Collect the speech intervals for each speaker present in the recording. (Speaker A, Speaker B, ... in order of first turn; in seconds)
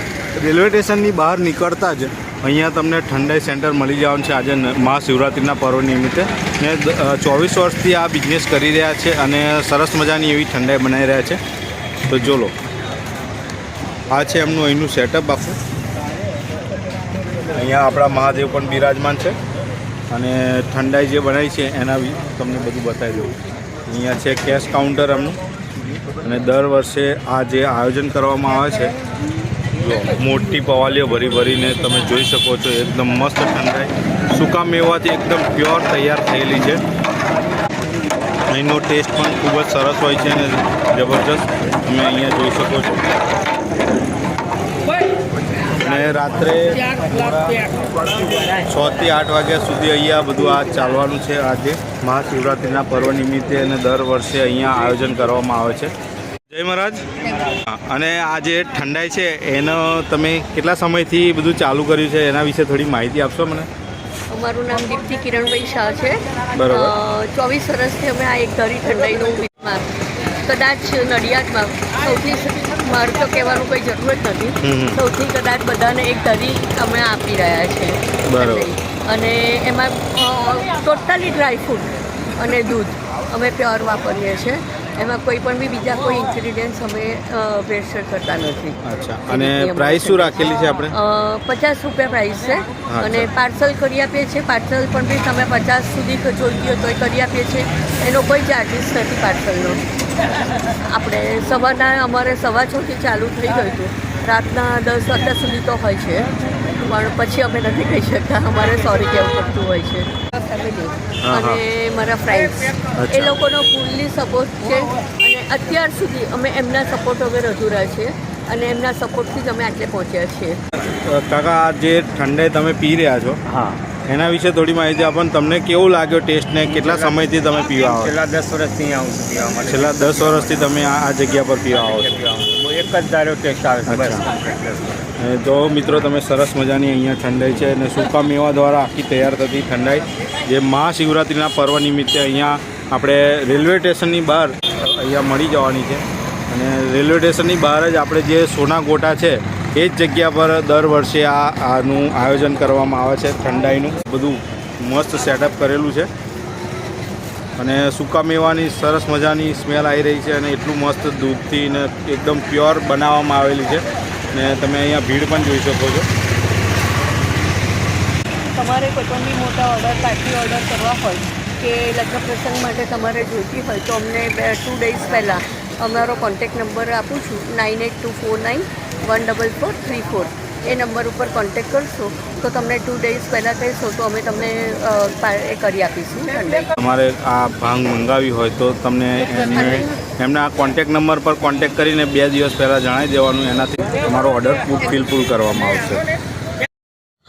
Speaker A: 0.3-11.4, 12.1-12.5, 14.1-15.6, 17.5-19.4, 20.1-23.4, 23.9-25.4, 26.2-28.9, 29.8-36.8, 38.5-43.0, 45.8-47.7, 48.6-55.9, 56.5-63.7, 66.5-67.0, 74.6-75.0, 78.3-78.7, 88.8-90.9, 92.9-93.3, 111.2-111.6, 113.0-113.4, 120.8-123.4, 124.0-128.1, 129.7-132.1, 133.9-134.2, 135.2-156.1, 157.6-166.1, 186.8-196.0
Speaker B: 64.3-69.9, 70.4-90.4, 90.9-99.8, 100.5-106.3, 106.8-120.6, 168.5-186.7
Speaker C: 123.5-123.8, 126.7-130.7, 131.7-135.0